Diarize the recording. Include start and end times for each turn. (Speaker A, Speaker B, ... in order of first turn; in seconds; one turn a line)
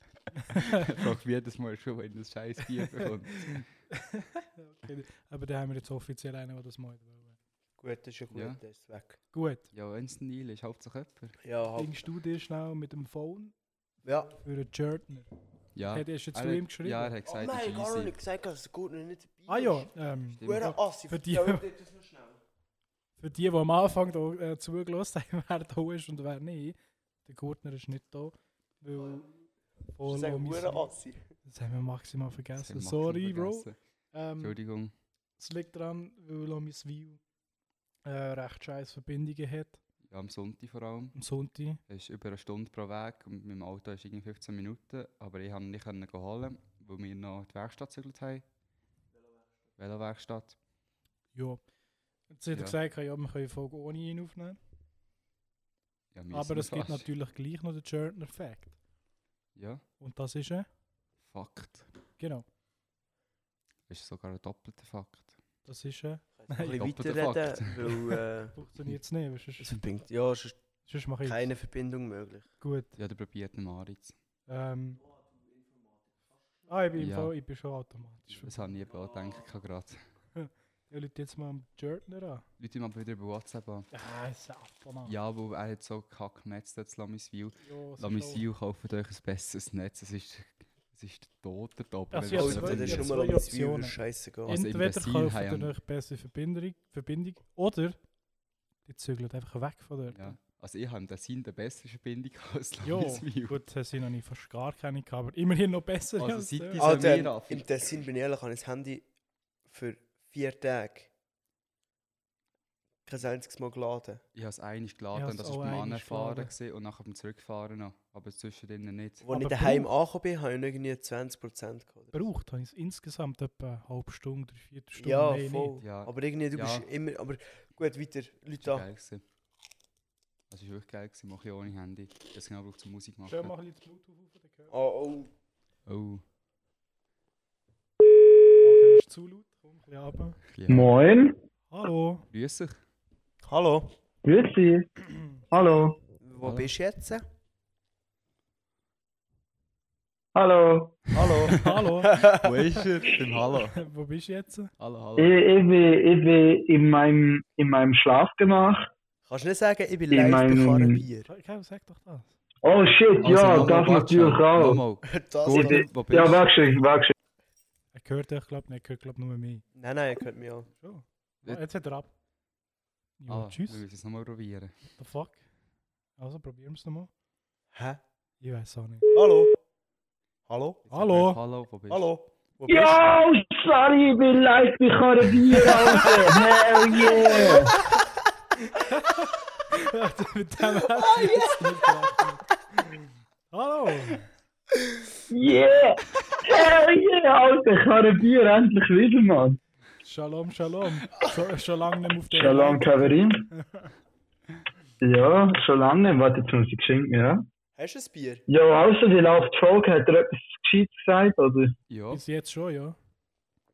Speaker A: 0.5-3.6
Speaker B: 3.5-7.4
Speaker C: 7.8-9.2
Speaker A: 8.3-8.6
Speaker B: 9.3-9.6
Speaker A: 9.7-11.3
Speaker C: 11.4-11.9
Speaker B: 11.8-13.6
Speaker C: 14.0-14.3
Speaker B: 14.3-15.3
Speaker A: 15.7-18.2
Speaker B: 15.8-17.1
Speaker C: 17.2-19.9
Speaker B: 19.5-21.6
Speaker A: 20.4-20.8
Speaker C: 20.4-22.4
Speaker B: 23.2-29.3
Speaker B: 29.9-30.9
Speaker C: 30.0-31.3
Speaker B: 31.4-34.6
Speaker A: 32.5-33.8
Speaker A: 34.4-34.9
Speaker B: 35.4-37.2
Speaker B: 38.0-39.8
Speaker A: 40.0-41.1
Speaker B: 41.1-41.8
Speaker A: 41.9-48.4
Speaker A: 49.8-50.5
Speaker B: 51.3-51.7
Speaker B: 52.3-54.6
Speaker A: 56.1-57.1
Speaker B: 56.3-58.8
Speaker A: 59.5-59.8
Speaker B: 60.0-60.7
Speaker A: 61.2-61.9
Speaker B: 62.2-62.5
Speaker A: 63.9-65.3
Speaker B: 65.6-66.8
Speaker C: 66.4-68.6
Speaker A: 66.7-68.2
Speaker B: 68.5-69.8
Speaker C: 69.6-70.6
Speaker B: 70.8-71.5
Speaker C: 71.2-72.5
Speaker B: 72.6-73.0
Speaker A: 73.0-74.1
Speaker B: 74.5-75.0
Speaker B: 76.7-78.7
Speaker A: 77.0-77.3
Speaker A: 78.3-80.0
Speaker B: 80.3-82.5
Speaker A: 82.6-83.9
Speaker B: 83.9-85.2
Speaker A: 85.0-93.1
Speaker B: 87.6-88.4
Speaker B: 92.1-98.1
Speaker C: 92.3-94.6
Speaker A: 94.5-95.7
Speaker B: 98.8-100.4
Speaker A: 100.1-103.6
Speaker B: 102.8-107.0
Speaker A: 106.2-107.7
Speaker C: 106.8-109.1
Speaker C: 109.7-111.1
Speaker C: 113.0-114.2
Speaker A: 114.3-119.2
Speaker B: 115.1-116.5
Speaker C: 119.2-122.2
Speaker B: 119.3-119.9
Speaker B: 122.1-125.8
Speaker C: 125.0-128.8
Speaker A: 125.8-126.9
Speaker A: 128.6-129.2
Speaker A: 130.5-133.5
Speaker B: 133.2-134.7
Speaker C: 134.7-135.3
Speaker A: 135.8-136.2
Speaker B: 138.6-140.4
Speaker A: 140.5-140.9
Speaker D: 140.7-141.4
Speaker B: 141.7-142.3
Speaker A: 142.3-142.8
Speaker C: 143.4-143.9
Speaker D: 144.2-144.9
Speaker D: 145.5-146.0
Speaker C: 146.2-147.2
Speaker A: 146.4-146.7
Speaker D: 150.3-151.1
Speaker C: 151.1-152.6
Speaker B: 151.2-152.2
Speaker A: 151.6-153.8
Speaker B: 153.8-154.7
Speaker A: 154.8-155.3
Speaker D: 155.2-158.9
Speaker C: 159.2-161.3
Speaker D: 160.1-161.0
Speaker B: 161.3-162.3
Speaker D: 162.6-164.8
Speaker A: 163.2-166.4
Speaker C: 165.0-165.8
Speaker D: 165.4-167.1
Speaker B: 167.9-169.6
Speaker C: 169.7-170.7
Speaker B: 170.8-172.1
Speaker B: 173.2-173.8
Speaker A: 173.3-174.7
Speaker B: 175.0-175.4
Speaker B: 176.2-177.1
Speaker C: 177.7-178.0
Speaker B: 178.4-179.1
Speaker C: 179.1-179.6
Speaker C: 180.5-180.8
Speaker A: 180.9-182.1
Speaker B: 180.9-181.4
Speaker C: 181.9-183.1
Speaker D: 182.7-187.8
Speaker C: 185.7-186.1
Speaker B: 185.7-186.1
Speaker C: 186.9-187.7
Speaker B: 187.1-188.0
Speaker B: 188.7-194.2
Speaker C: 190.9-192.0
Speaker D: 195.3-199.6
Speaker B: 200.0-203.9
Speaker D: 202.3-203.5
Speaker D: 205.0-207.4
Speaker C: 207.8-208.4
Speaker D: 208.5-211.7
Speaker A: 211.9-212.2
Speaker B: 212.1-213.0